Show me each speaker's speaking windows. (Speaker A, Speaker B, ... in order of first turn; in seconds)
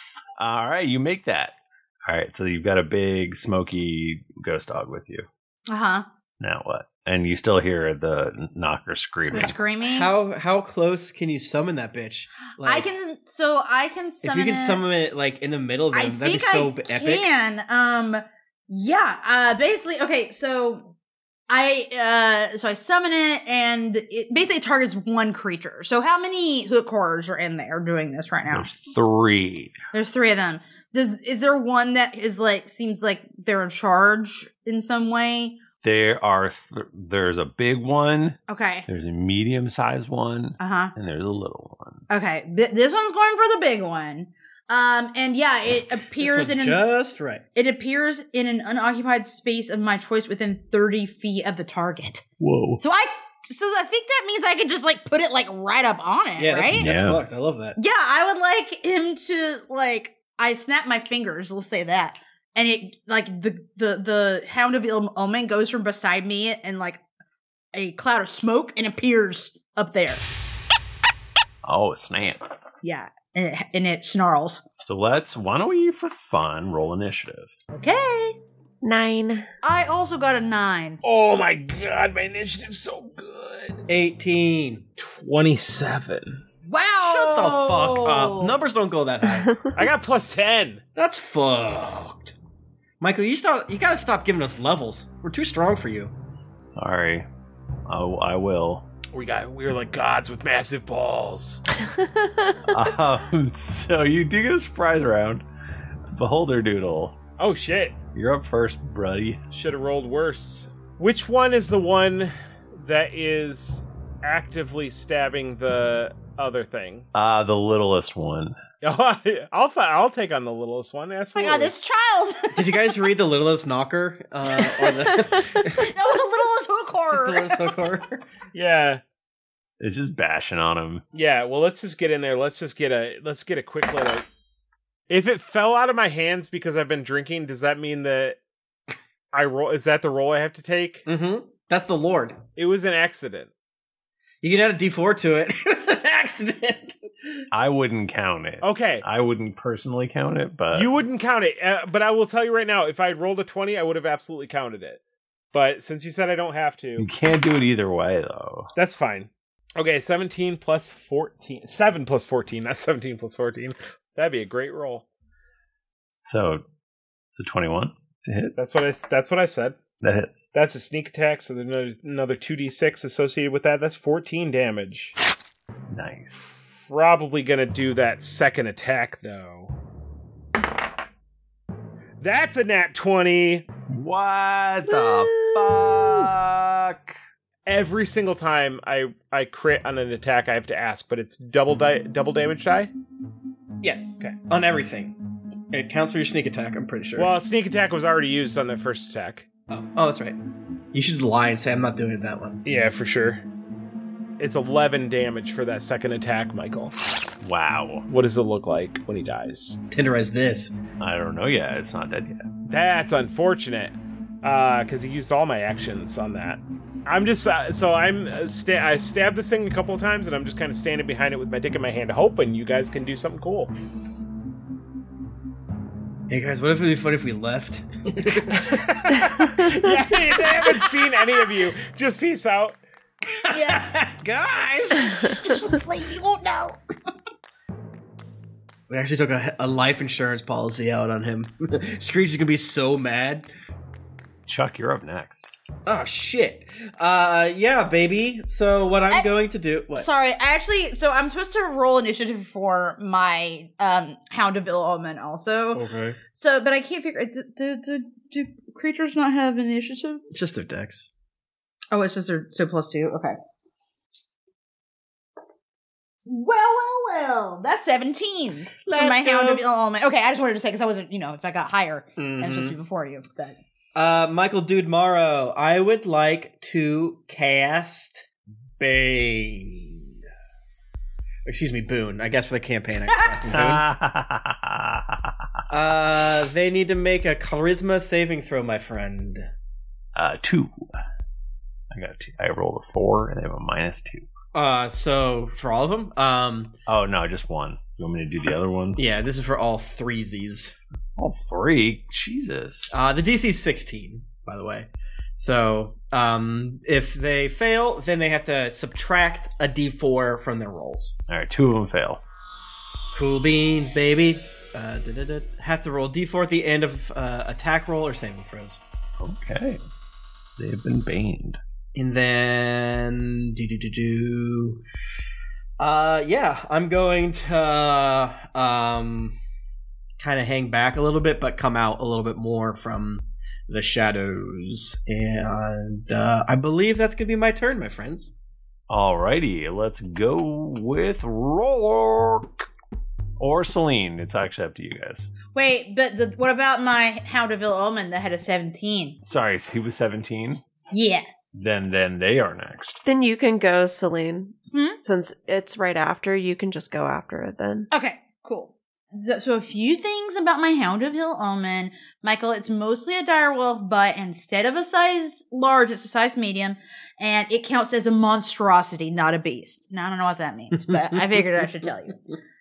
Speaker A: 0.4-5.2, 6.4-9.5, 28.5-29.8, 35.8-42.0, 52.4-52.8, 56.7-57.2, 71.6-72.4, 74.8-77.5, 96.6-97.2, 97.9-98.9, 102.7-105.4, 106.1-107.2, 108.1-109.4, 117.1-118.6, 129.8-131.0, 147.5-150.9, 157.0-158.7, 166.2-166.6, 167.3-168.6, 170.0-170.4, 175.9-176.7, 183.9-187.2, 207.4-208.1, 211.0-212.4, 244.5-245.5, 283.5-285.3, 290.1-290.9, 291.9-294.3, 296.9-299.1, 301.2-302.9, 311.3-312.2, 319.2-319.8, 320.6-321.6, 338.9-342.6, 343.4-345.3, 349.2-350.6, 351.5-353.0
Speaker B: 5.7-6.0, 9.3-10.1, 12.6-14.8, 15.9-20.9, 21.5-28.7, 29.9-35.6, 38.5-38.9, 40.6-40.9, 42.1-46.8, 47.5-52.2, 52.8-56.9, 57.8-67.0, 67.7-70.2, 72.8-74.6, 77.7-78.4, 79.6-81.0, 86.7-88.5, 121.3-122.9, 125.8-127.7, 233.5-233.9, 234.9-236.8, 249.9-255.8, 256.3-260.2, 261.9-263.4, 266.3-273.6, 345.5-349.2, 350.9-351.2, 354.7-355.0, 357.9-372.2
Speaker C: 9.8-12.9, 14.2-17.3, 46.1-47.4, 56.4-57.8, 83.9-84.8, 87.0-89.6, 91.0-92.3, 93.0-96.1, 122.5-125.9, 127.1-128.2, 141.1-142.4, 144.4-147.1, 193.8-195.2, 195.7-197.3, 199.7-200.4, 200.9-202.6, 209.9-210.7, 226.3-228.7, 233.4-235.4, 238.9-243.5, 245.8-250.1, 255.7-256.2, 260.3-261.1, 268.8-269.6, 272.2-272.8, 273.9-278.2, 278.8-280.0, 281.4-283.8, 285.7-289.5, 294.5-296.7, 299.0-300.7, 302.9-311.1, 313.1-318.8, 321.9-324.8, 325.8-329.3, 330.2-338.3
Speaker D: 78.8-79.5, 101.9-102.5, 353.0-357.9
Speaker E: 81.0-83.8, 85.0-86.4, 89.7-90.8, 99.1-101.6, 107.4-108.0, 109.5-117.1, 118.8-121.7, 128.5-129.0, 131.1-134.2, 135.1-138.4, 139.3-141.0, 142.6-143.5, 148.6-149.0, 150.7-155.0, 155.5-157.1, 158.8-165.0, 168.6-169.8, 170.5-175.1, 176.9-179.7, 182.2-183.7, 187.7-192.9, 197.2-199.4, 202.6-203.4, 204.4-206.9, 208.1-209.8, 212.7-223.7, 228.7-232.8